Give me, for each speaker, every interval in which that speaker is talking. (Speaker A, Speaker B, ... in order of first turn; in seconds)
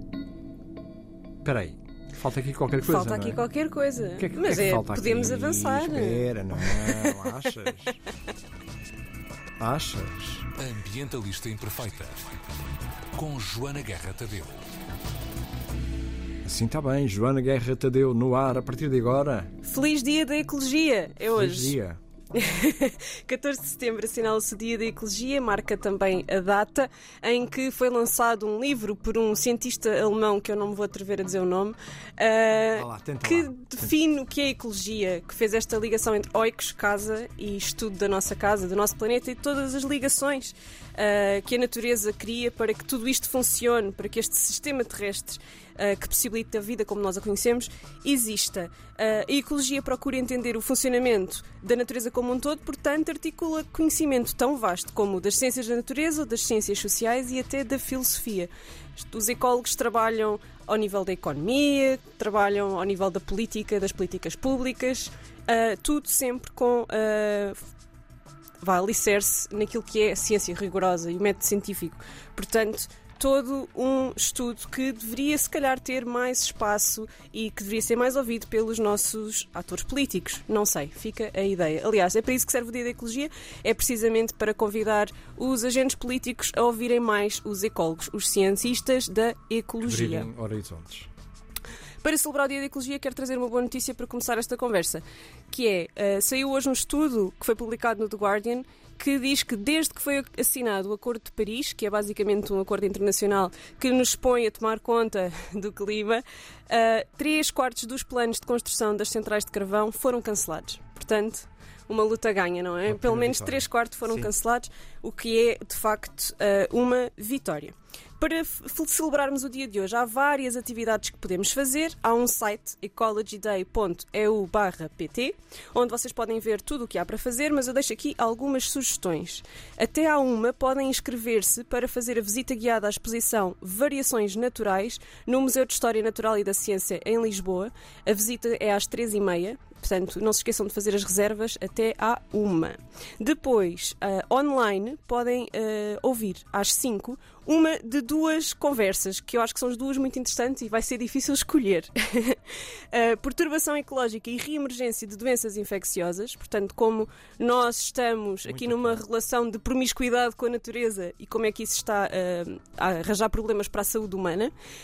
Speaker A: 1.4-3.4, 4.2-8.0, 9.6-10.6, 16.4-19.5, 21.3-22.0, 32.7-33.9, 89.8-91.1, 112.9-114.3, 158.4-159.0
Speaker B: 2.8-7.5, 19.6-21.8, 22.3-67.6, 68.6-90.3, 92.0-164.5
Speaker C: 11.0-11.9, 13.2-14.3